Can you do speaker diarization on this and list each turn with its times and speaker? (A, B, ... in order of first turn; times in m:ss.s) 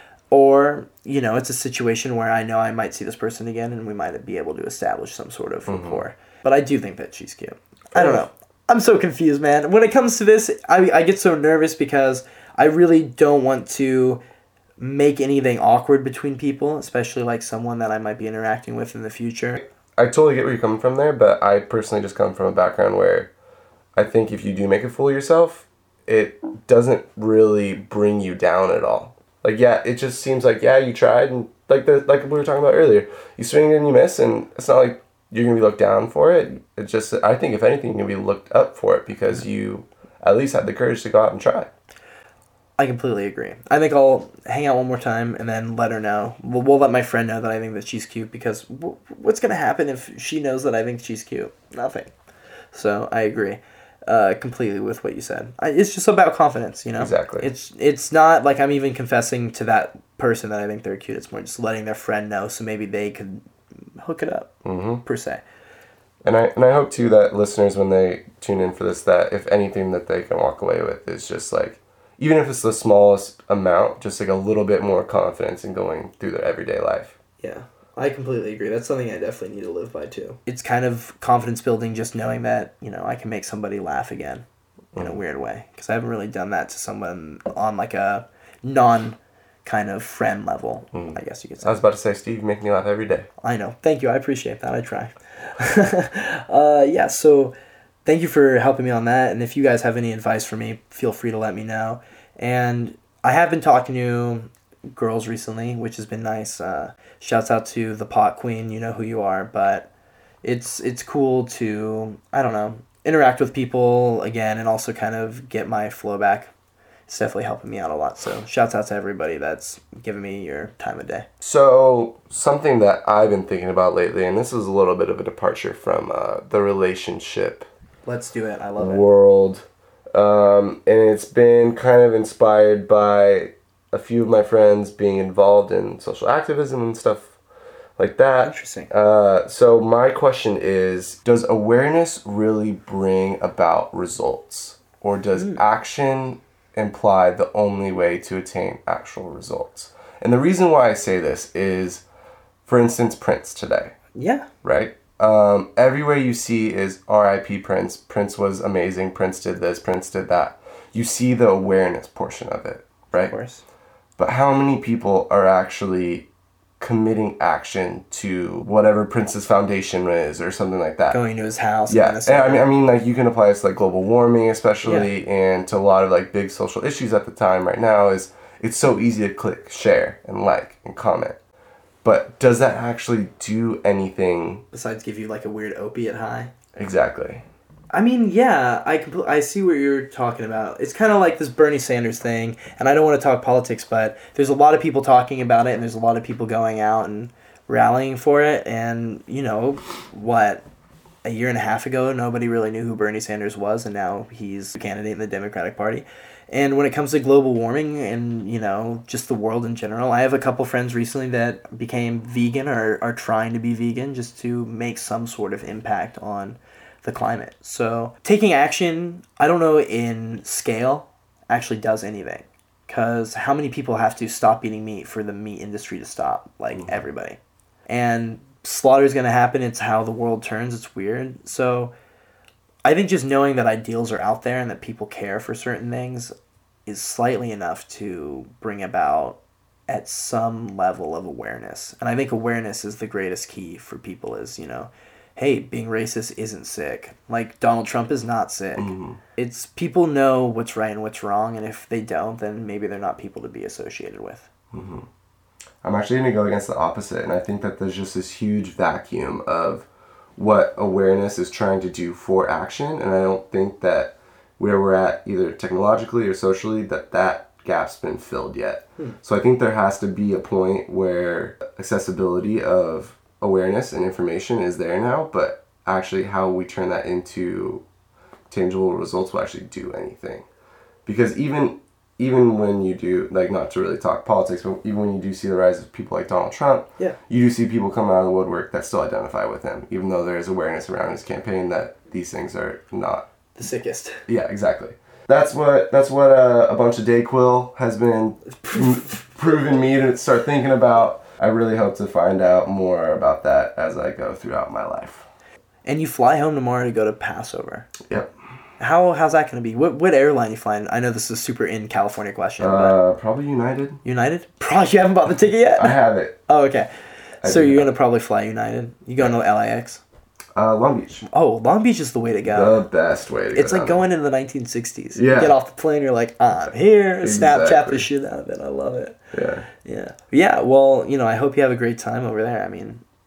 0:00.3-0:14.2 A
0:05.7-0:06.0 B
0:07.9-0:08.2 B
0:14.8-0:19.6 A
0:19.6-0:23.3 B
0:23.9-0:41.7 B
0:42.8-0:52.1 A
0:52.7-1:03.4 A
0:57.0-0:57.5 B
1:04.0-1:05.4 A
1:04.6-1:05.0 B
1:06.2-1:17.2 B
1:17.4-1:24.4 A
1:24.9-1:25.2 B
1:25.0-1:31.8 A
1:30.9-1:33.3 B
1:33.4-1:49.9 A
1:50.4-1:56.5 A
1:57.1-2:01.3 A
2:01.4-2:07.7 B
2:08.0-2:09.0 A
2:08.8-2:17.3 B
2:18.0-2:32.0 B
2:18.4-2:18.9 A
2:25.4-2:25.6 A
2:32.6-2:33.9 B
2:34.1-2:34.5 A
2:34.6-2:43.3 B
2:43.2-2:43.6 A
2:44.2-2:46.3 B
2:46.8-2:51.2 B
2:51.1-2:52.6 A
2:51.9-3:01.4 B
3:02.0-3:04.6 B
3:04.7-3:06.5 A
3:06.8-3:07.4 B
3:07.9-3:20.6 A
3:21.2-3:51.9 A
3:52.8-3:56.3 A
3:56.8-4:14.5 A
4:08.8-4:09.2 B
4:14.7-4:15.1 B
4:15.8-4:37.8 B
4:38.5-4:40.4 B
4:41.0-4:53.3 B
4:53.6-4:54.2 A
4:54.3-5:05.3 B
4:58.6-4:59.2 A
5:05.8-5:07.9 A
5:08.0-5:08.3 B
5:08.8-5:13.0 A
5:12.6-5:14.0 B
5:14.0-5:16.9 A
5:15.8-5:16.4 B
5:17.4-5:17.9 B
5:17.4-5:20.0 A
5:20.5-5:21.2 B
5:21.3-5:22.8 A
5:22.5-5:24.1 B
5:23.5-5:29.2 A
5:25.2-5:25.5 B
5:27.2-5:28.0 B
5:29.3-5:29.7 B
5:29.8-5:33.0 A